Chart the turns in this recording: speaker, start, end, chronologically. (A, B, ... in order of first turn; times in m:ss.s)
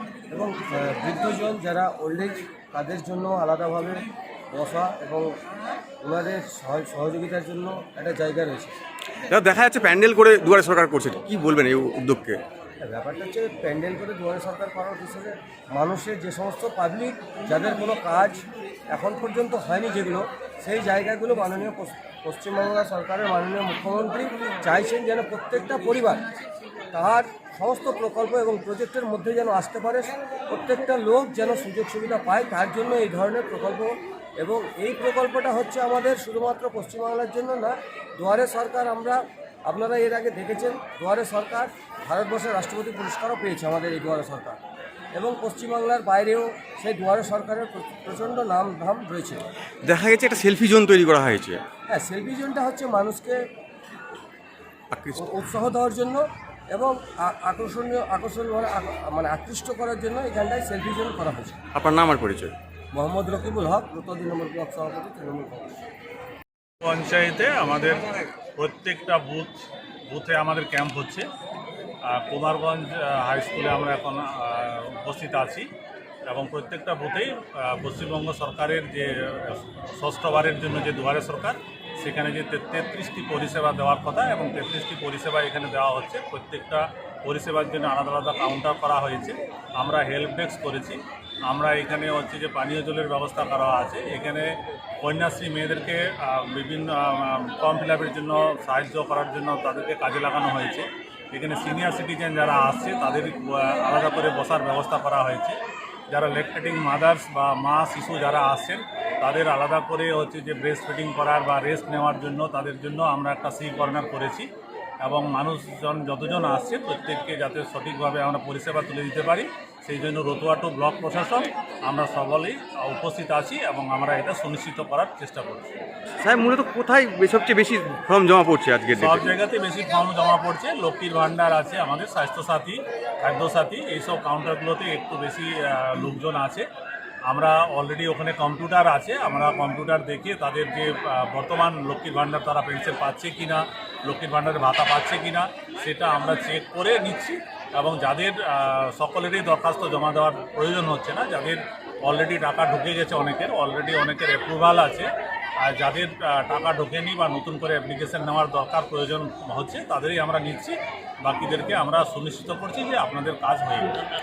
0:00.3-0:05.3 A
0:06.0-0:08.7 A
0:09.3-0:12.4 B
0:12.8-0:26.2 A
0:26.9-0:44.6 A
0:45.2-0:49.4 A
0:49.8-0:51.6 B
0:51.9-0:53.4 A
0:54.9-0:55.3 B
0:55.2-1:01.6 A
1:01.8-1:02.6 B
1:02.9-1:05.8 A
1:06.8-1:11.3 C
1:12.0-1:15.7 C
1:16.3-1:45.6 C
1:46.1-1:54.5 C
1:55.0-2:05.7 C
2:06.2-2:09.3 B
2:09.0-2:16.7 C
2:17.3-2:35.1 C
2:35.6-2:44.0 C